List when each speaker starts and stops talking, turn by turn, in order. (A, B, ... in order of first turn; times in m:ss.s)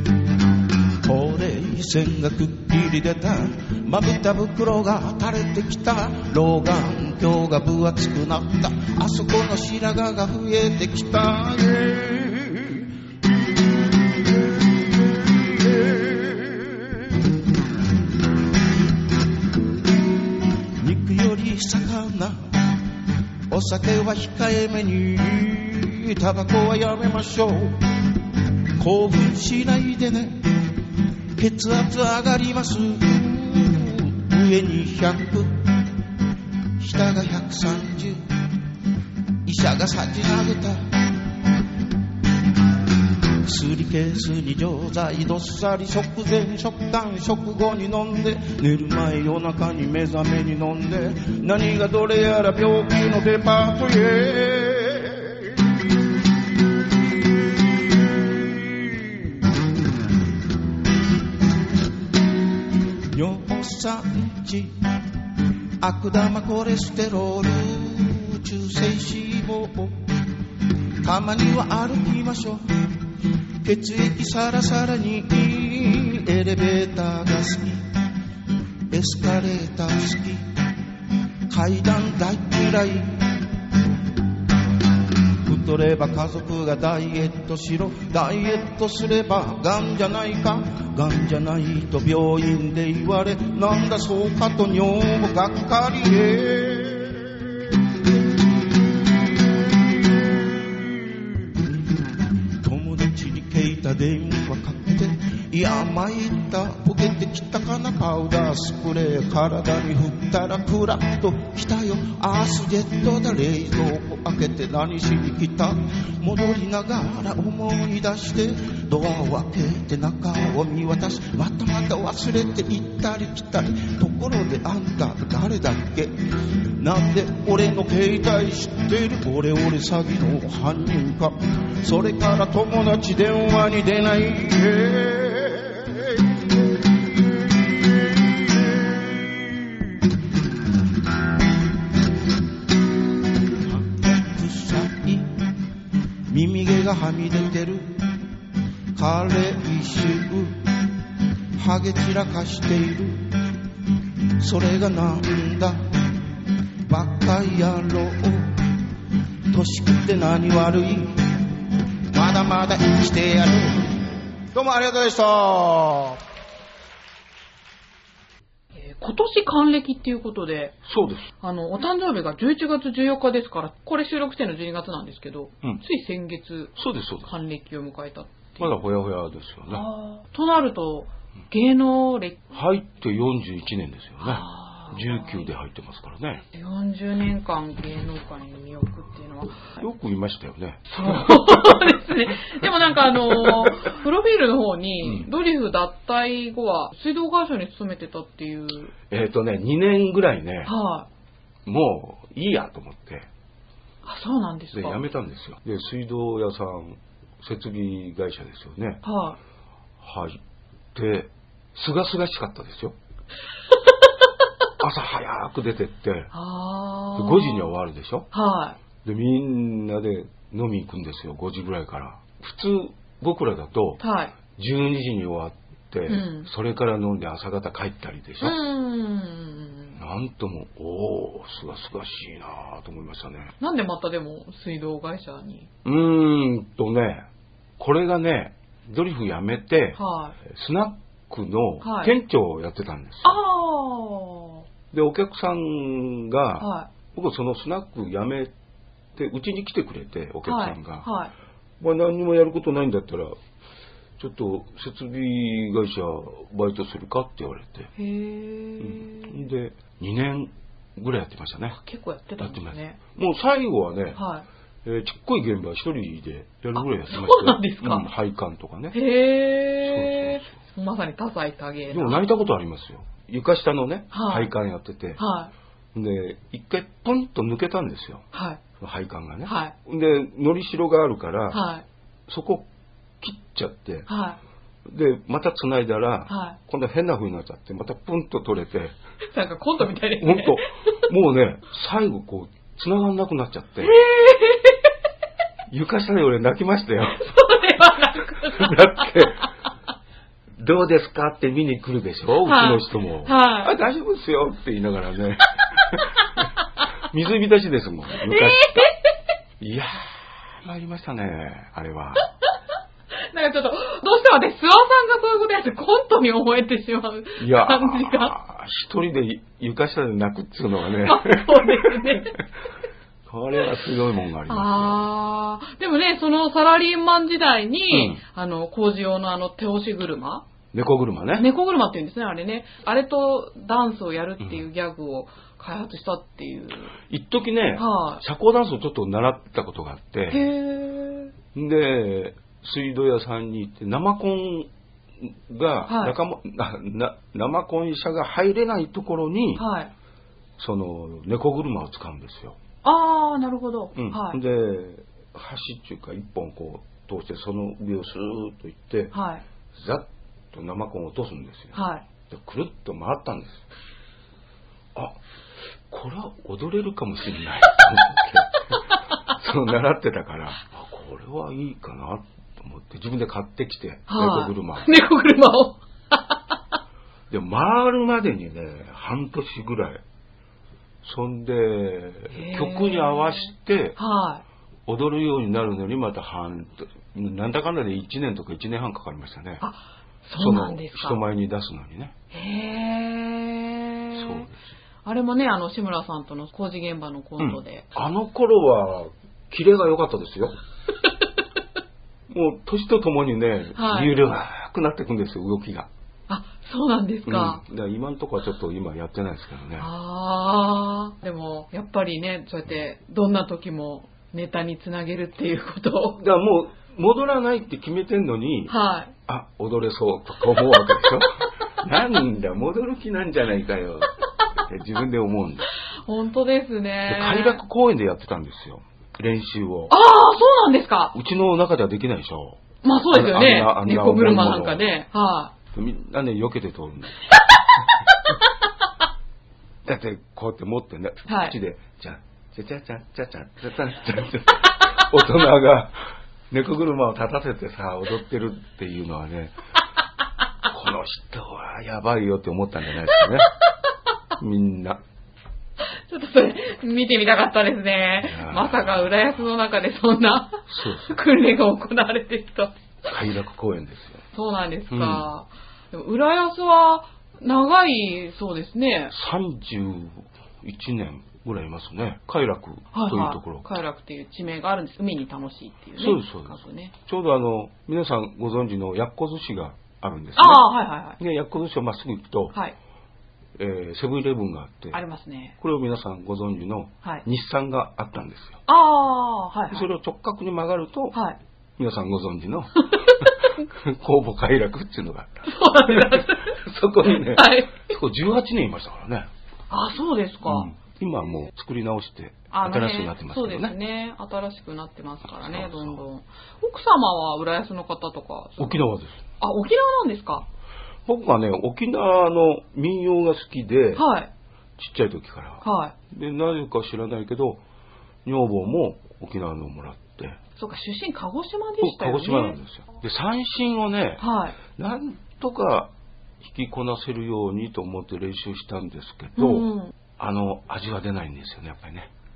0:01.0-0:17.3 A
0:20.8-0:22.6 A
0:23.5-0:27.8 A
0:28.8-0:30.5 A
0:31.4-0:35.7 A
0:36.8-0:38.2 A
0:39.4-0:41.0 A
0:43.4-0:55.6 A
0:57.7-0:59.4 A
1:03.1-1:04.7 A
1:05.8-1:10.0 A
1:11.0-1:12.9 A
1:13.6-1:17.8 A
1:18.9-1:20.4 A
1:21.5-1:23.3 A
1:25.4-1:37.5 A
1:39.7-1:41.5 A
1:42.6-2:06.1 A
2:06.8-2:19.8 A
2:23.6-2:25.3 A
2:26.3-2:28.0 A
2:29.0-2:30.6 A
2:31.6-2:33.3 A
2:34.4-2:35.8 A
2:36.9-2:38.6 A
2:39.5-2:41.3 A
2:42.1-2:46.2 A
2:48.8-2:50.8 B
2:50.9-2:51.3 C
2:51.4-2:58.8 B
2:56.8-2:57.3 C
2:58.6-2:59.9 C
2:59.7-3:02.5 B
3:02.5-3:06.4 C
3:04.2-3:05.5 B
3:06.5-3:09.8 B
3:09.8-3:12.0 C
3:10.9-3:18.9 B
3:12.6-3:13.8 C
3:15.0-3:15.3 C
3:19.1-3:20.7 C
3:20.7-3:21.1 B
3:21.7-3:23.3 C
3:24.0-3:25.0 B
3:24.7-3:29.0 C
3:29.0-3:29.4 B
3:30.0-3:30.4 C
3:30.9-3:33.0 C
3:34.8-3:36.3 C
3:36.3-3:37.7 B
3:37.2-3:38.3 C
3:38.3-3:38.8 B
3:39.0-3:44.0 C
3:44.0-3:44.4 B
3:44.5-3:48.6 C
3:46.1-3:46.5 B
3:48.4-3:50.0 B
3:50.0-3:53.5 C
3:53.6-3:55.7 B
3:55.8-3:57.3 C
3:57.8-4:03.4 C
4:00.0-4:00.4 B
4:01.8-4:02.2 B
4:03.2-4:04.7 B
4:04.9-4:08.5 C
4:06.6-4:06.9 B
4:09.2-4:11.1 C
4:10.4-4:11.3 B
4:11.8-4:13.4 C
4:14.2-4:17.9 C
4:18.0-4:19.4 B
4:18.8-4:21.8 C
4:21.7-4:23.0 B
4:22.4-4:24.2 C
4:24.2-4:24.5 B
4:24.8-4:29.0 C
4:26.8-4:28.1 B
4:28.9-4:32.2 B
4:29.8-4:30.5 C
4:31.9-4:35.2 C
4:34.1-4:34.5 B
4:35.2-4:35.5 B
4:35.9-4:38.3 C
4:38.3-4:38.6 B
4:38.8-4:41.6 C
4:39.5-4:39.7 B
4:41.5-4:41.8 B
4:42.3-4:42.7 C
4:43.2-4:44.1 C
4:44.1-4:44.4 B
4:44.8-4:49.0 C
4:46.3-4:46.6 B
4:49.3-4:51.0 B
4:50.2-4:54.0 C
4:53.8-4:54.9 B
4:55.7-4:57.3 C
4:57.2-4:59.3 B
4:58.4-4:59.5 C
5:00.6-5:08.9 C
5:02.4-5:03.8 B
5:08.2-5:09.1 B
5:09.6-5:12.3 C
5:13.3-5:18.4 B
5:17.4-5:22.4 C
5:21.0-5:22.4 B
5:23.3-5:25.0 C
5:24.5-5:30.5 B
5:27.9-5:28.2 C
5:30.7-5:31.5 C
5:31.4-5:37.0 B
5:37.0-5:40.5 C
5:37.8-5:38.2 B
5:40.3-5:41.3 B
5:41.5-5:49.6 C
5:45.9-5:46.2 B
5:49.6-5:49.9 B
5:50.6-5:52.6 C
5:52.8-5:54.4 B
5:54.0-5:59.1 C
5:59.1-5:59.4 B
5:59.7-6:03.6 C
6:01.7-6:02.0 B
6:05.9-6:14.9 C
6:14.1-6:16.4 B
6:17.3-6:20.0 C
6:21.0-6:24.0 C
6:22.3-6:24.4 B
6:24.9-6:29.6 C
6:29.6-6:31.2 B
6:30.4-6:32.2 C
6:32.3-6:34.5 B
6:34.1-6:34.6 C
6:35.0-6:37.9 B
6:37.4-6:40.6 C
6:42.3-6:45.9 C
6:43.8-6:44.2 B
6:46.3-6:47.6 B
6:47.3-6:49.9 C
6:49.8-6:56.2 B
6:56.2-6:58.8 C
6:58.7-6:59.2 B
6:59.3-7:05.7 C
7:06.1-7:07.6 B
7:07.1-7:09.9 C
7:09.9-7:11.2 B
7:11.1-7:14.8 C
7:12.8-7:15.5 B
7:15.7-7:17.2 C
7:19.8-7:26.0 C
7:21.3-7:21.6 B
7:26.5-7:29.6 C
7:30.7-7:33.5 C
7:34.4-7:35.0 C
7:35.8-7:42.8 B
7:38.2-7:39.1 C
7:40.7-7:41.1 C
7:43.1-7:44.2 C
7:44.3-7:49.2 B
7:44.9-7:45.3 C
7:49.1-7:53.7 C
7:52.9-7:56.9 B
7:56.0-8:02.6 C
8:00.4-8:01.2 B
8:03.6-8:05.0 C
8:04.9-8:05.6 B
8:05.6-8:08.6 C
8:08.7-8:09.9 B
8:09.7-8:11.2 C
8:11.1-8:11.4 B
8:11.8-8:19.3 C
8:12.9-8:13.3 B
8:15.4-8:17.8 B
8:19.7-8:20.7 B
8:20.4-8:23.8 C
8:22.5-8:28.8 B
8:25.3-8:26.0 C
8:28.6-8:29.2 C
8:29.4-8:30.5 B
8:31.1-8:34.0 C
8:34.0-8:34.3 B
8:34.8-8:37.6 C
8:35.6-8:36.0 B
8:38.2-8:40.4 C
8:40.6-8:42.6 B
8:41.8-8:52.1 C
8:44.2-8:44.6 B
8:49.4-8:49.9 B